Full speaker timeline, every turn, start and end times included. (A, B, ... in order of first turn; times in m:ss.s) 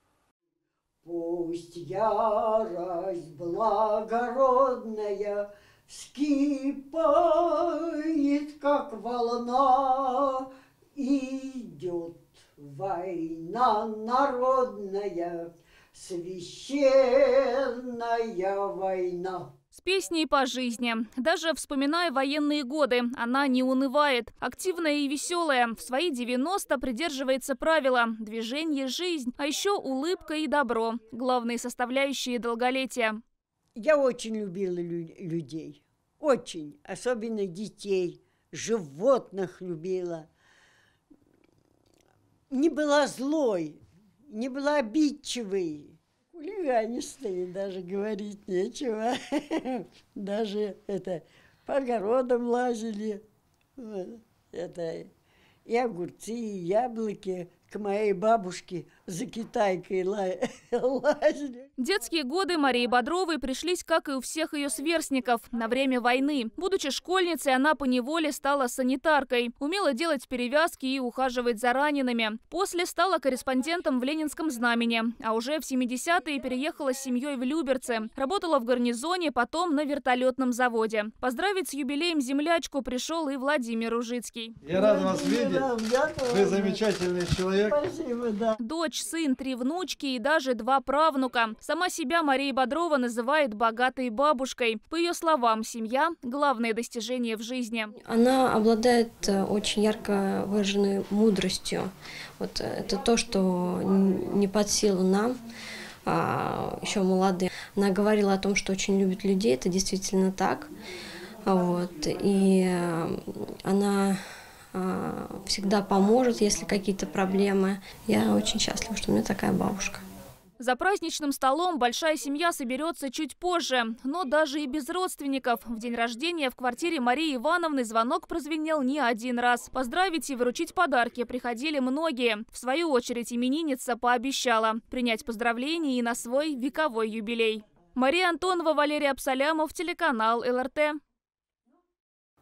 0:01.0-0:19.5 A
0:19.7-0:33.2 B
0:33.8-0:40.3 A
0:42.5-0:53.2 A
0:53.8-0:55.1 A
0:55.7-1:01.7 A
1:01.8-1:24.6 B
1:24.6-1:25.7 C
1:24.7-1:26.9 A
1:26.2-1:27.8 C
1:27.5-1:28.6 A
1:28.6-1:37.9 B
1:38.0-1:45.3 D
1:46.1-1:50.7 D
1:51.4-1:54.2 D
1:54.7-2:00.0 D
2:00.6-2:21.0 B